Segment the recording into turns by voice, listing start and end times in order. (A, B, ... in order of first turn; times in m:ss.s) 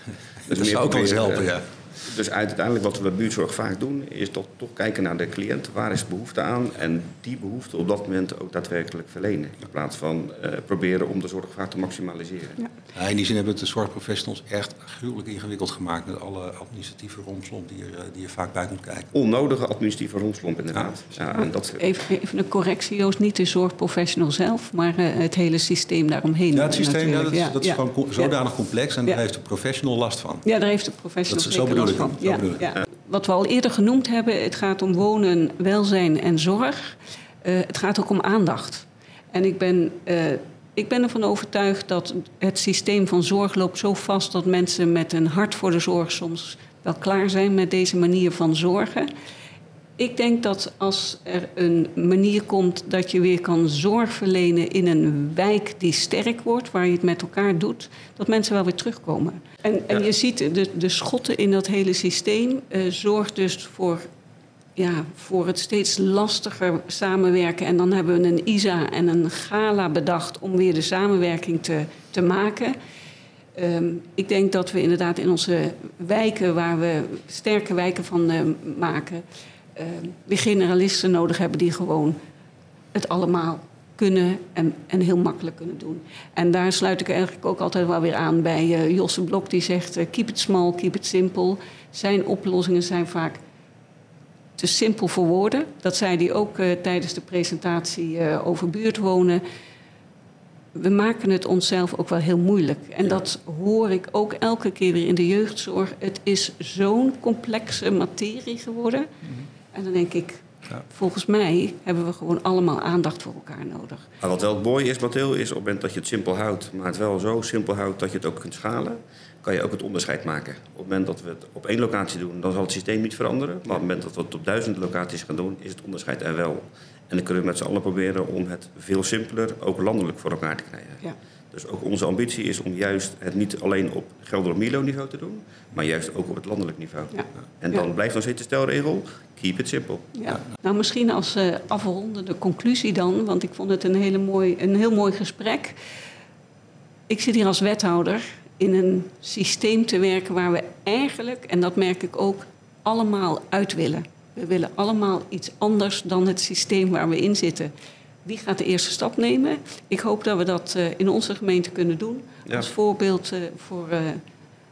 0:00.4-0:12.6 A
0:00.5-0:01.7 B
0:12.9-0:19.1 B
0:19.1-0:21.8 A
0:21.8-0:28.3 C
0:26.5-0:30.4 B
0:30.4-0:49.1 C
0:31.3-0:32.7 B
0:50.0-1:04.0 C
1:04.8-1:12.8 C
1:13.5-1:22.2 C
1:22.9-1:33.4 C
1:34.6-1:39.4 C
1:40.7-1:49.1 C
1:49.7-1:54.1 C
1:54.2-2:20.1 A
2:17.1-2:17.8 C
2:20.1-2:25.8 C
2:27.1-2:37.7 C
2:38.2-2:44.2 C